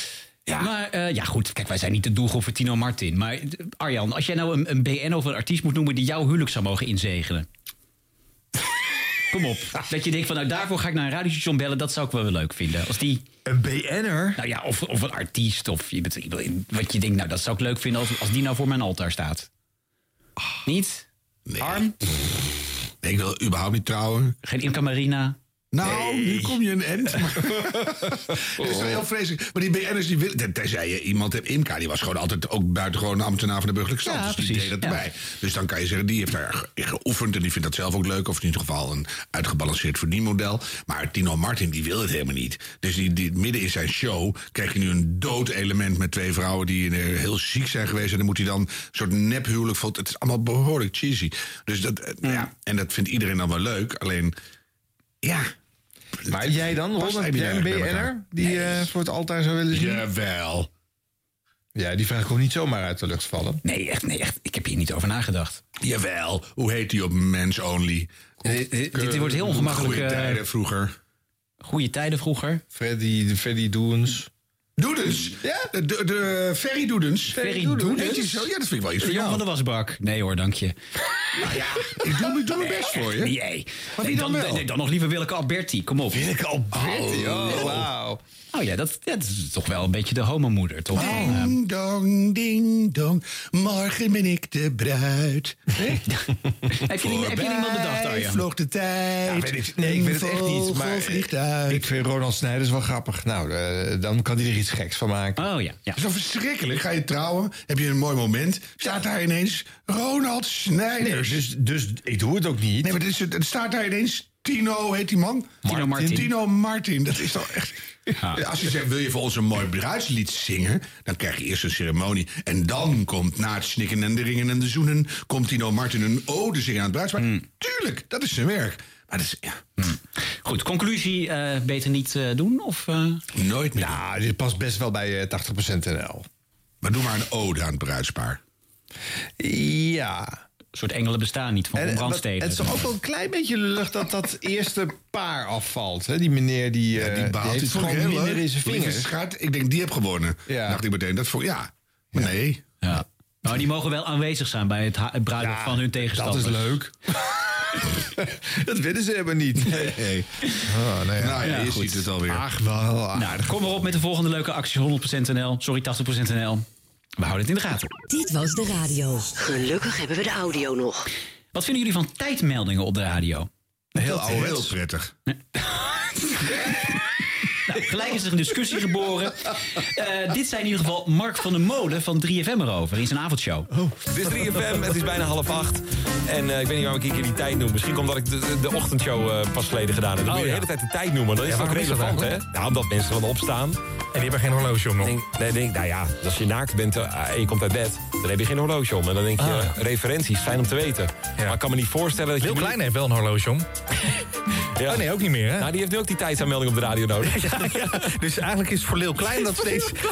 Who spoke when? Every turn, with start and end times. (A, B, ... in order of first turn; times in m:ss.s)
0:00.6-0:07.5 A
0:09.3-0:13.2 A
0:13.4-0:14.4 B
0:14.4-0:19.5 A
0:20.6-0:21.0 A
0:21.5-0:21.9 C
0:21.6-0:21.9 A
0:23.0-0:24.3 C
0:24.4-0:25.4 A
0:25.7-0:54.4 C
0:34.0-0:35.0 A
0:55.2-0:55.5 C
0:56.3-0:58.1 C
0:56.3-1:00.0 B
0:59.7-1:00.7 C
1:01.7-1:03.6 B
1:03.6-1:05.6 A
1:05.8-1:10.9 C
1:08.4-1:10.4 A
1:11.6-1:12.6 A
1:12.7-1:14.3 B
1:14.8-1:19.4 C
1:15.4-1:15.7 B
1:17.4-1:18.4 A
1:17.4-1:18.1 B
1:19.0-1:20.8 A
1:21.4-1:23.3 C
1:22.6-1:26.3 A
1:24.0-1:24.7 C
1:26.2-1:28.2 B
1:26.7-1:27.9 C
1:28.5-1:31.5 A
1:30.9-1:36.0 C
1:31.0-1:31.3 B
1:36.8-1:38.4 A
1:37.0-1:41.9 C
1:39.2-1:45.4 B
1:45.4-1:46.0 A
1:45.9-1:51.5 C
1:51.0-1:53.0 B
1:52.8-1:57.8 C
1:55.6-1:56.3 B
1:55.7-1:56.3 A
1:58.3-2:09.6 C
2:07.2-2:07.4 A
2:09.8-2:13.2 A
2:13.3-2:14.0 C
2:13.8-2:16.2 B
2:16.8-2:18.4 C
2:19.4-2:20.4 B
2:20.7-2:22.9 A
2:21.7-2:29.1 B
2:26.9-2:32.6 C
2:30.5-2:30.8 B
2:32.8-2:36.8 A
2:35.4-2:36.9 B
2:38.2-2:40.0 B
2:39.8-2:40.3 C
2:40.6-2:41.6 B
2:41.2-2:42.4 C
2:41.4-2:42.0 A
2:42.2-2:43.6 B
2:43.2-2:46.6 A
2:47.2-2:47.9 A
2:48.1-2:51.0 D
2:51.5-2:53.5 A
2:54.0-2:54.7 B
2:54.0-2:55.1 C
2:57.6-3:03.7 A
3:04.1-3:13.8 E
3:10.2-3:10.6 A
3:14.2-3:14.8 F
3:15.0-3:22.8 E
3:22.4-3:23.6 F
3:24.8-3:27.7 E
3:25.1-3:25.6 F
3:27.4-3:28.0 B